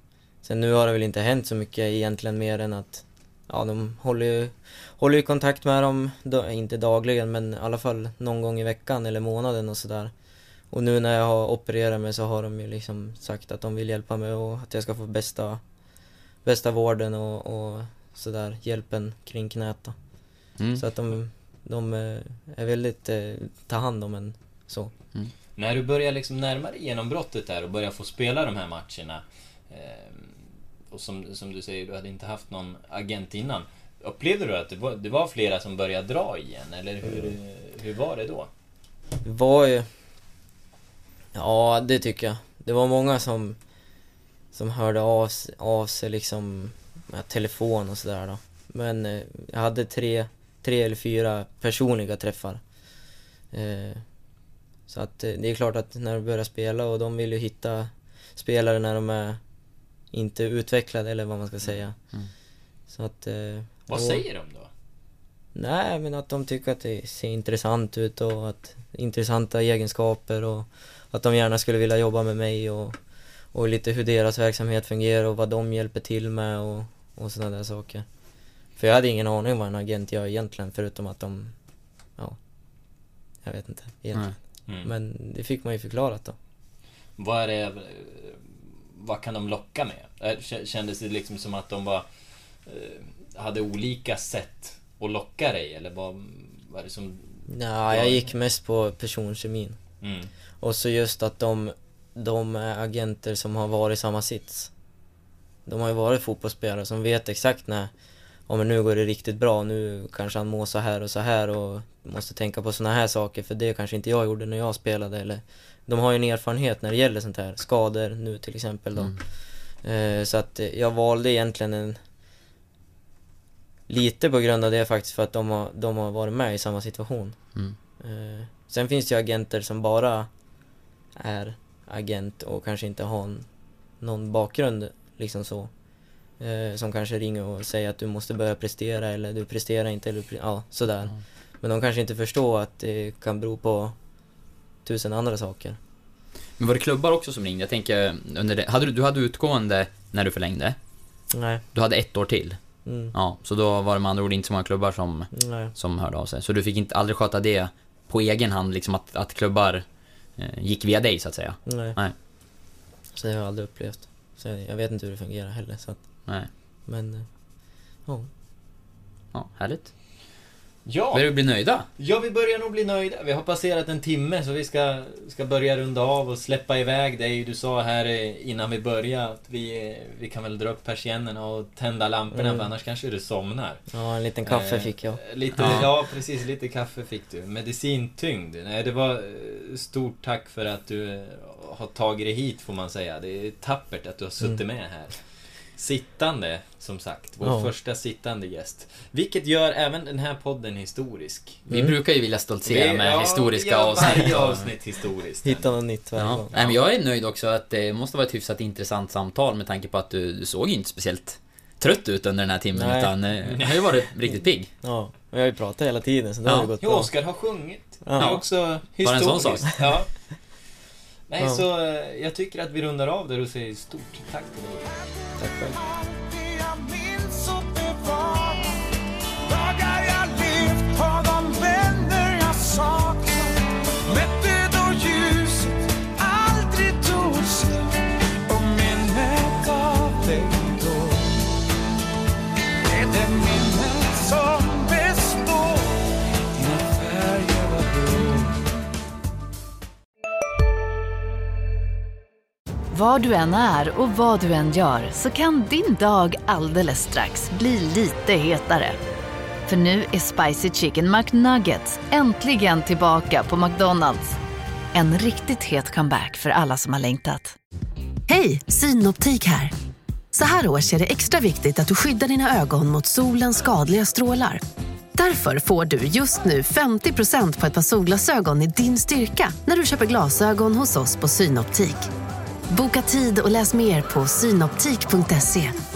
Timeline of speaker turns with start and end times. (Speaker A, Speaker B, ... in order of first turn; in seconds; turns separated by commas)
Speaker A: 0.4-10.1, Speaker A: 10.7-15.6, Speaker A: 16.4-19.9, Speaker B: 20.6-20.8, Speaker A: 20.8-24.9, Speaker C: 25.6-30.4, Speaker C: 30.9-38.5, Speaker A: 37.0-37.3, Speaker A: 39.2-39.9, Speaker A: 41.3-43.6, Speaker A: 44.5-52.6, Speaker A: 53.5-54.0, Speaker A: 54.9-59.4, Speaker A: 60.1-62.0, Speaker A: 62.9-64.2, Speaker C: 63.9-64.7, Speaker A: 65.5-73.0, Speaker A: 73.5-78.0, Speaker A: 78.8-81.5, Speaker A: 83.4-86.3, Speaker C: 87.2-92.0, Speaker C: 92.7-98.3, Speaker A: 97.5-99.8, Speaker C: 100.0-100.3, Speaker A: 100.6-104.7, Speaker A: 105.7-107.9, Speaker A: 108.5-119.2, Speaker A: 119.8-122.0, Speaker A: 123.9-127.4, Speaker A: 128.0-130.3, Speaker A: 131.2-133.4, Speaker A: 134.0-135.7, Speaker A: 136.4-143.9, Speaker A: 144.8-145.8, Speaker B: 146.6-150.8, Speaker A: 151.3-151.6, Speaker B: 151.7-152.6, Speaker A: 152.8-153.1, Speaker B: 153.1-159.8, Speaker A: 155.3-155.7, Speaker B: 160.4-162.1, Speaker A: 161.7-162.0, Speaker A: 163.1-166.0, Speaker A: 166.9-167.2, Speaker B: 169.3-169.9, Speaker C: 170.8-171.3, Speaker B: 171.1-171.8, Speaker C: 172.0-183.8, Speaker A: 182.3-182.7, Speaker A: 183.9-185.9, Speaker C: 184.4-195.2, Speaker B: 185.5-185.9, Speaker C: 195.8-201.6, Speaker A: 197.4-197.7, Speaker A: 201.7-201.9, Speaker B: 201.7-204.6, Speaker C: 202.6-205.8, Speaker A: 205.4-206.6, Speaker B: 206.2-214.7, Speaker A: 212.7-213.1, Speaker C: 213.5-214.0, Speaker A: 214.8-217.1, Speaker C: 216.8-220.1, Speaker A: 218.0-218.4, Speaker B: 219.0-219.7, Speaker C: 221.3-225.1, Speaker A: 225.4-225.8, Speaker D: 226.3-228.7, Speaker D: 229.5-233.4, Speaker D: 234.1-235.7, Speaker D: 236.2-237.8, Speaker D: 238.5-241.1, Speaker D: 243.0-245.6, Speaker D: 246.6-248.4, Speaker E: 252.9-258.9, Speaker E: 259.7-264.4, Speaker E: 264.9-267.5, Speaker F: 268.3-269.7, Speaker F: 270.3-274.6, Speaker F: 275.1-282.1, Speaker F: 282.7-285.8